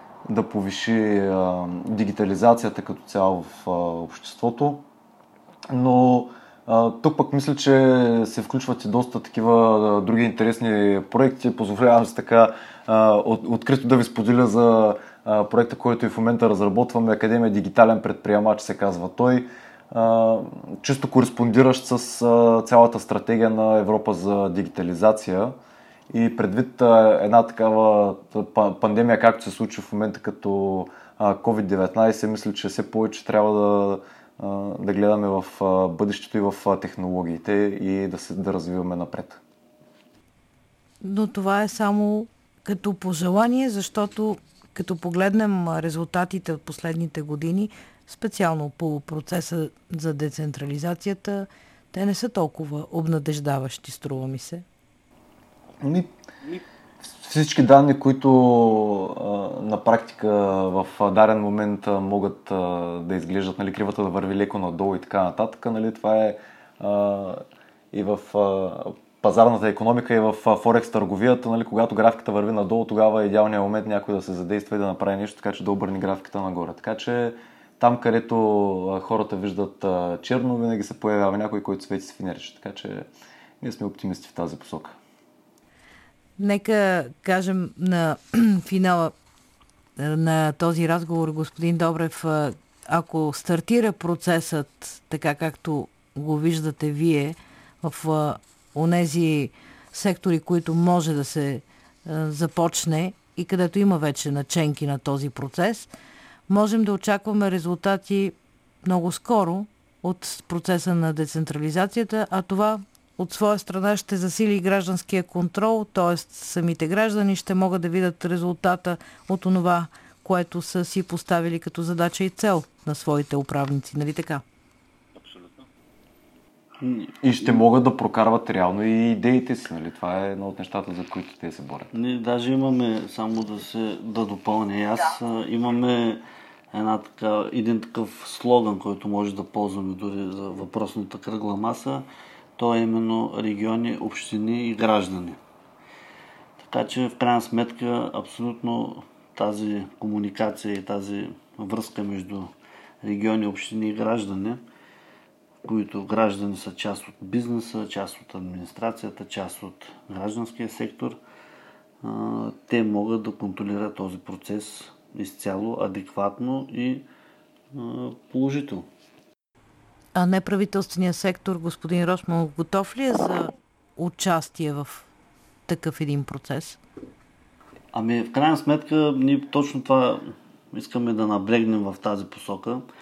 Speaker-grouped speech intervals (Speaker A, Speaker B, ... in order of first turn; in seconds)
Speaker A: 0.3-4.8, 5.7-25.5, 26.1-39.4, 55.8-56.1, 57.0-83.1, 83.6-85.0, 127.2-131.9
Speaker B: 41.0-54.6, 86.4-89.1, 90.0-105.9, 106.5-124.4, 170.2-175.1, 175.7-176.8
Speaker C: 126.8-127.6, 131.9-142.1, 142.6-145.4, 146.6-152.5, 153.0-154.6, 155.6-161.2, 162.0-167.1, 167.7-168.9, 177.9-182.8